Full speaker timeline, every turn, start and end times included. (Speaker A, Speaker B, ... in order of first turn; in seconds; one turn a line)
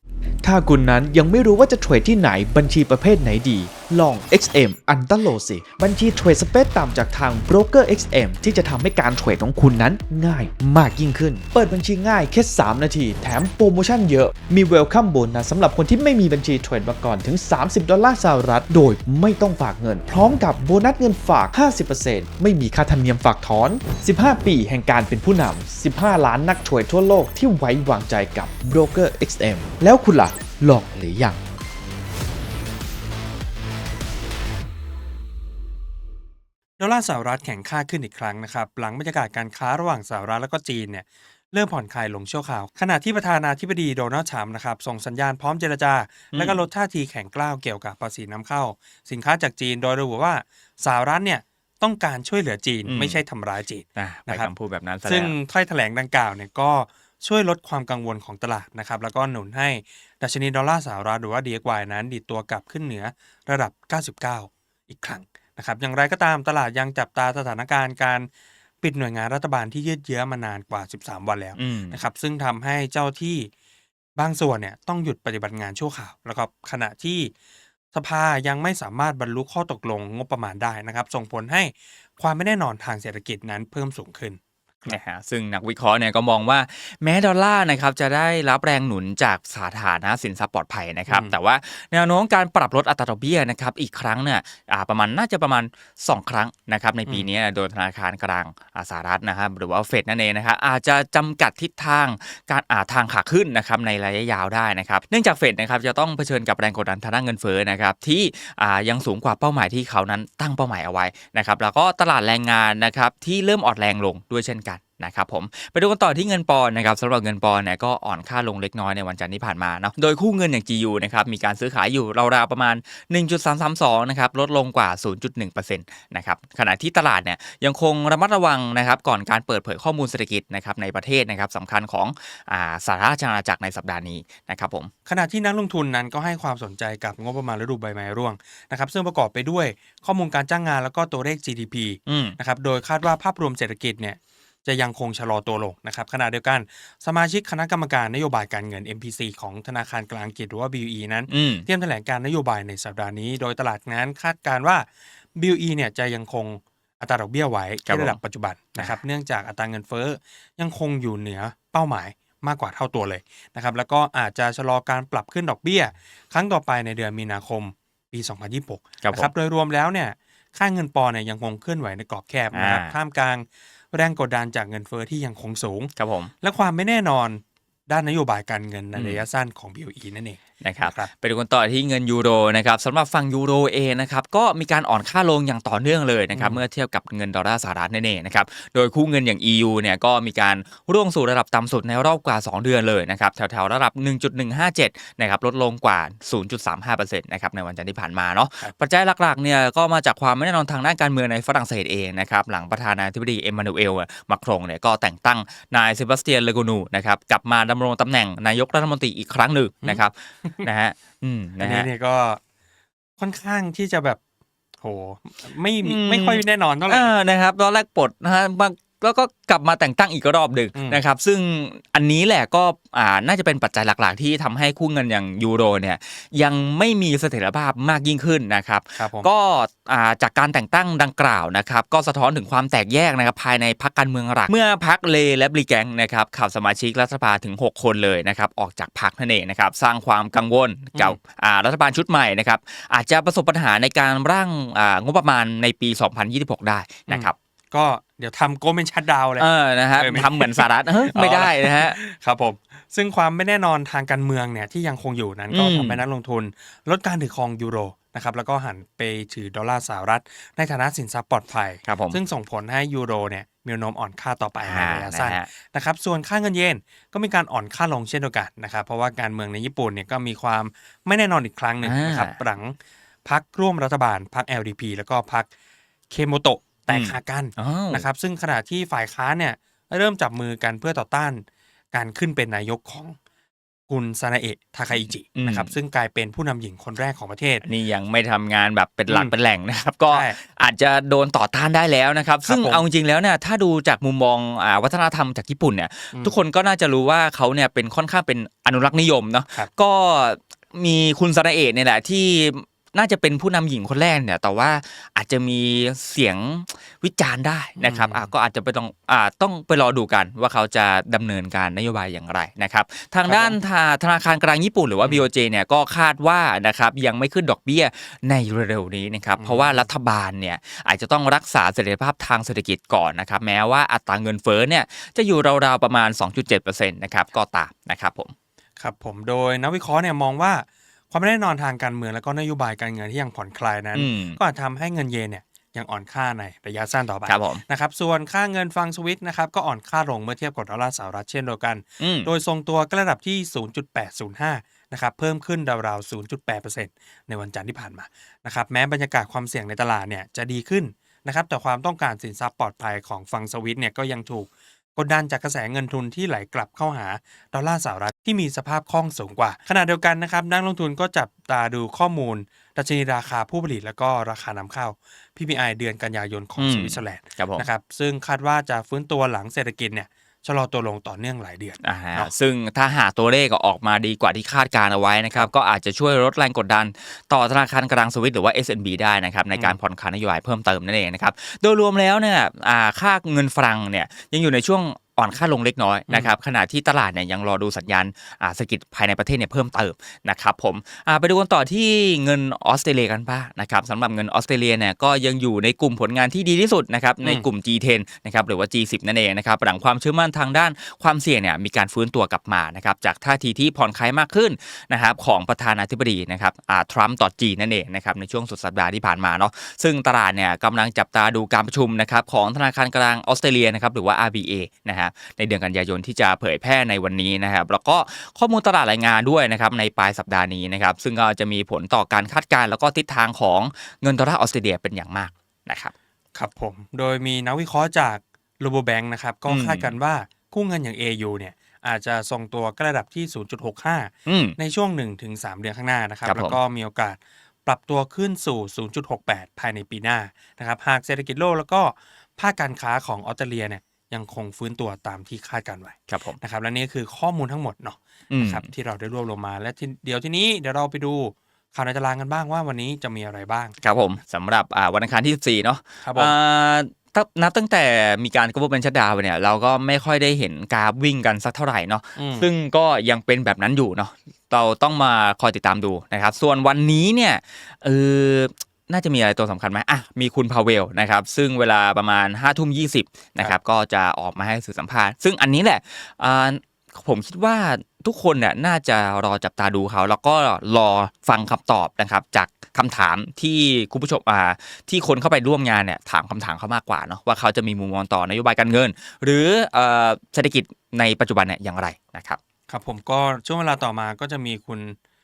Speaker A: 0.4-31.4
Speaker B: 36.8-54.5
Speaker C: 46.3-46.6
Speaker C: 52.9-53.2
Speaker C: 54.0-55.3
Speaker B: 55.0-68.3
Speaker B: 68.8-73.5
Speaker C: 71.6-72.0
Speaker B: 74.2-77.3
Speaker B: 77.9-85.0
Speaker C: 84.9-134.9
Speaker B: 91.1-91.3
Speaker B: 135.1-181.1
Speaker C: 142.1-142.4
Speaker C: 151.3-151.7
Speaker C: 157.9-158.2
Speaker C: 169.0-169.3
Speaker C: 172.5-172.9
Speaker C: 176.0-176.3
Speaker C: 178.9-179.2
Speaker C: 180.6-211.9
Speaker B: 186.3-186.6
Speaker B: 209.8-210.7
Speaker B: 211.6-212.4
Speaker B: 213.2-214.2
Speaker B: 214.8-217.1
Speaker C: 215.8-247.3
Speaker B: 220.8-221.0
Speaker B: 229.0-229.3
Speaker B: 247.1-275.5
Speaker C: 249.4-252.0
Speaker C: 255.5-256.0
Speaker C: 261.9-262.2
Speaker C: 264.6-265.5
Speaker C: 271.8-272.4
Speaker B: 276.1-283.2
Speaker C: 276.9-278.1
Speaker B: 283.9-287.6
Speaker C: 284.9-285.8
Speaker C: 287.6-328.3
Speaker B: 289.1-289.3
Speaker B: 290.1-290.4
Speaker B: 292.4-292.8
Speaker B: 296.1-296.4
Speaker B: 307.8-308.3
Speaker B: 313.3-313.6
Speaker B: 315.0-315.3
Speaker B: 319.4-319.9
Speaker B: 328.8-372.3
Speaker C: 333.9-334.4
Speaker C: 337.3-337.6
Speaker C: 342.0-342.3
Speaker C: 366.6-367.7
Speaker C: 371.8-425.9
Speaker B: 386.1-386.3
Speaker B: 397.2-397.5
Speaker B: 426.4-453.8
Speaker C: 429.5-429.9
Speaker C: 434.3-434.6
Speaker C: 436.2-436.6
Speaker C: 446.1-446.4
Speaker C: 448.3-448.6
Speaker C: 453.8-492.4
Speaker B: 456.0-456.4
Speaker B: 462.2-462.5
Speaker B: 492.7-495.0